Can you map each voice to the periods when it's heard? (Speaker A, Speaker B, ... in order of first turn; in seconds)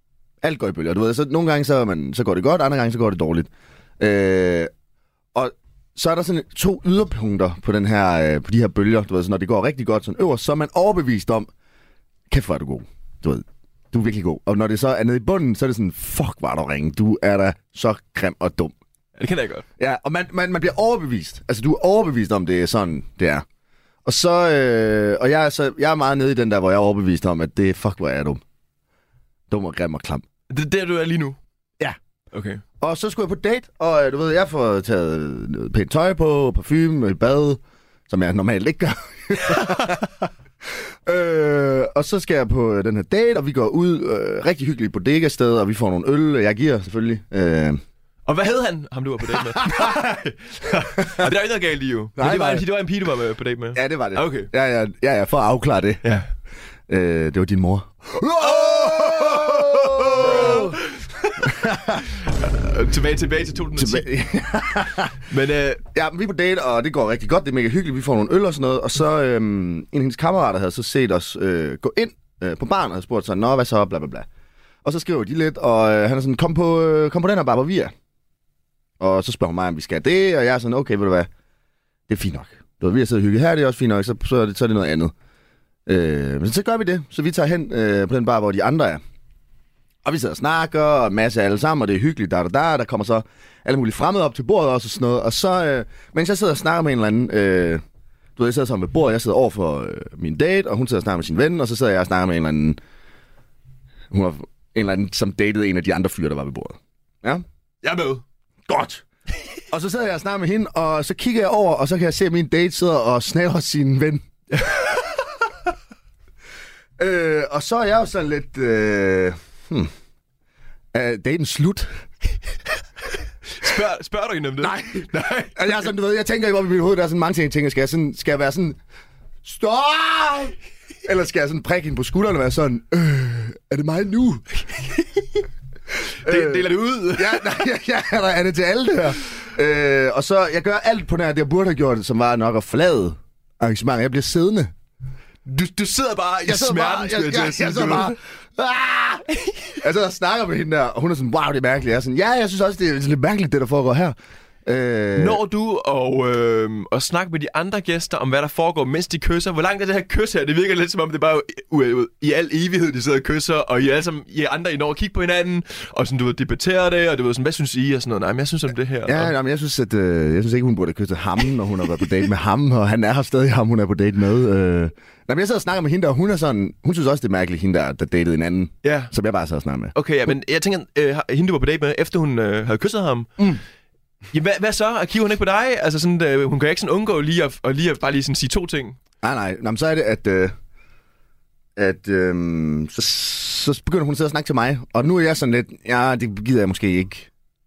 Speaker A: 0.4-4.7, 5.3-11.5, 12.3-18.7, 19.8-23.4, 24.0-28.4, 29.5-30.2, 32.8-40.1, 41.0-47.8, 49.6-49.9, 51.0-51.3, 52.2-52.7, 53.7-56.0, 56.9-60.8, 61.4-62.0, 63.8-65.2, 65.9-74.3, 74.8-77.9, 79.0-81.3, 82.1-85.1, 85.9-89.0, 90.0-97.8, 98.4-102.8, 104.1-107.4, 108.7-109.0, 109.7-114.2, 117.0-119.9, 120.9-122.0, 124.6-128.8, 129.4-134.4, 136.2-144.7, 146.4-149.3, 149.8-155.4, 169.1-179.9, 189.2-190.5, 191.8-197.3
Speaker B: 19.2-19.6, 30.5-31.4, 32.3-32.6, 39.5-39.9, 48.2-54.5, 56.0-56.3, 58.4-64.1, 65.3-65.8, 107.8-108.2, 114.5-115.1, 123.5-125.8, 134.7-135.4, 136.2-137.6, 145.4-148.1, 149.4-149.7, 155.2-169.3, 178.8-179.1, 179.9-183.3, 184.3-189.0